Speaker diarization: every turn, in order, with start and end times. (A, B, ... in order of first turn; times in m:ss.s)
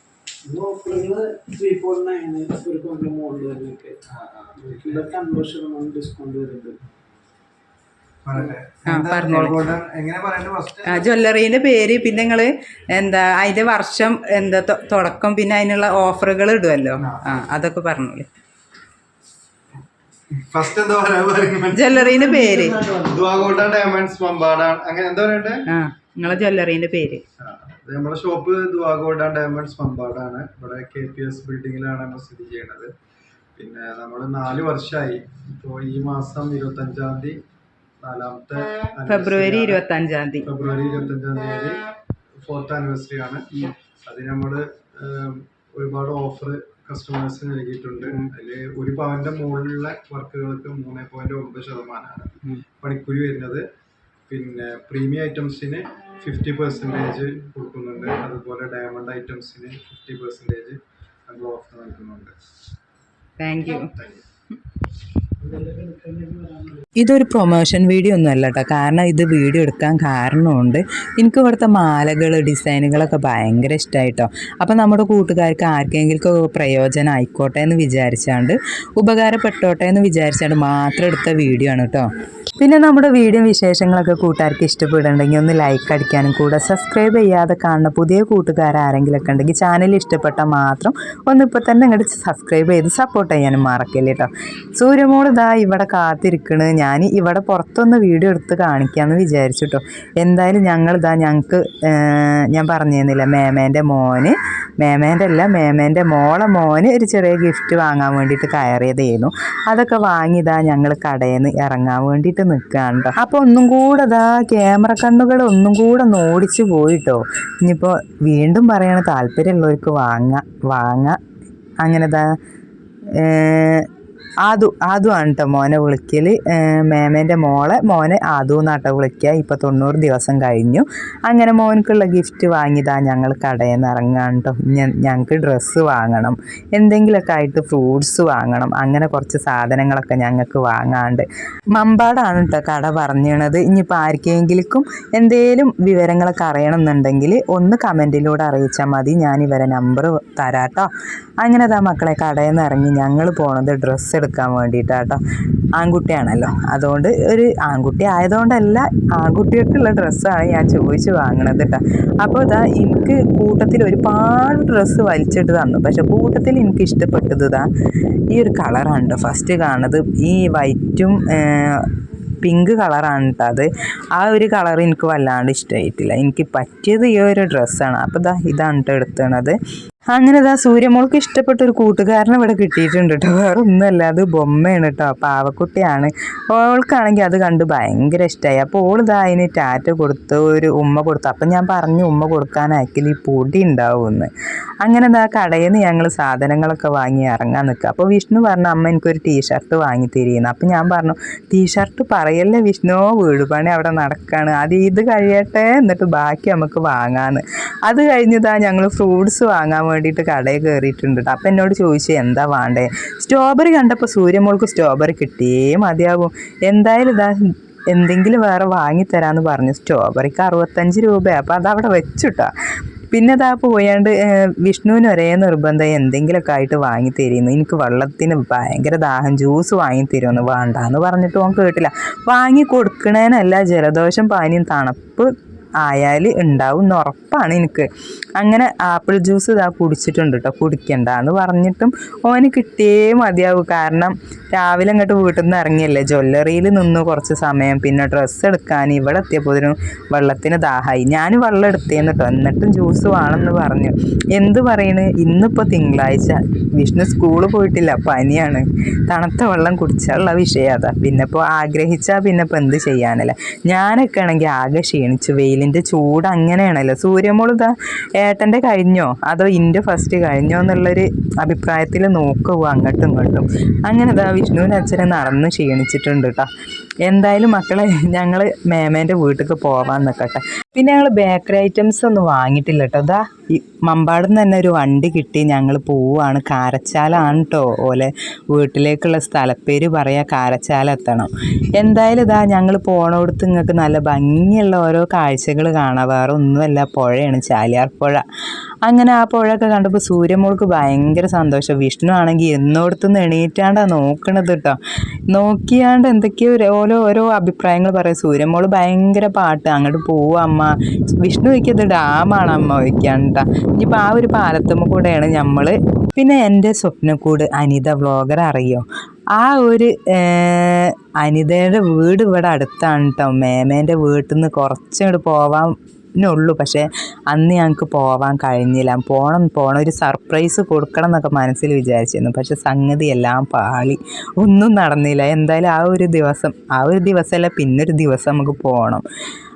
0:00.5-0:04.0 A
0:04.2-0:05.0 B
0:04.6-0:06.8 A
0:08.2-0:11.0 B
0:08.8-0:09.6 C
0:10.8-0:18.3 C
0:17.0-0:17.4 B
0:20.4-0:22.0 B
0:21.7-0:22.8 C
0:21.9-0:23.4 A
0:23.0-0:25.6 B
0:25.7-0:27.2 C
0:27.4-0:32.9 B
0:33.6-0:37.4 B
0:38.0-0:39.8 B
0:39.1-0:40.5 C
0:40.4-0:41.8 B
0:42.4-0:43.5 B
0:44.0-0:53.6 B
0:54.3-1:02.3 B
1:03.4-1:03.9 C
1:03.6-1:04.2 B
1:05.4-1:06.8 A
1:07.0-2:01.2 C
2:01.8-2:02.2 C
2:03.2-2:03.9 C
2:04.5-2:30.9 C
2:31.4-2:35.2 C
2:35.8-2:47.7 C
2:48.3-2:59.6 C
3:00.1-3:14.3 C
3:14.8-3:37.4 C
3:37.9-3:42.5 C
3:43.1-3:55.3 C
3:55.8-4:36.5 C
4:37.0-4:58.2 C
4:58.9-5:04.8 C
5:05.3-5:18.8 C
5:19.4-5:39.0 C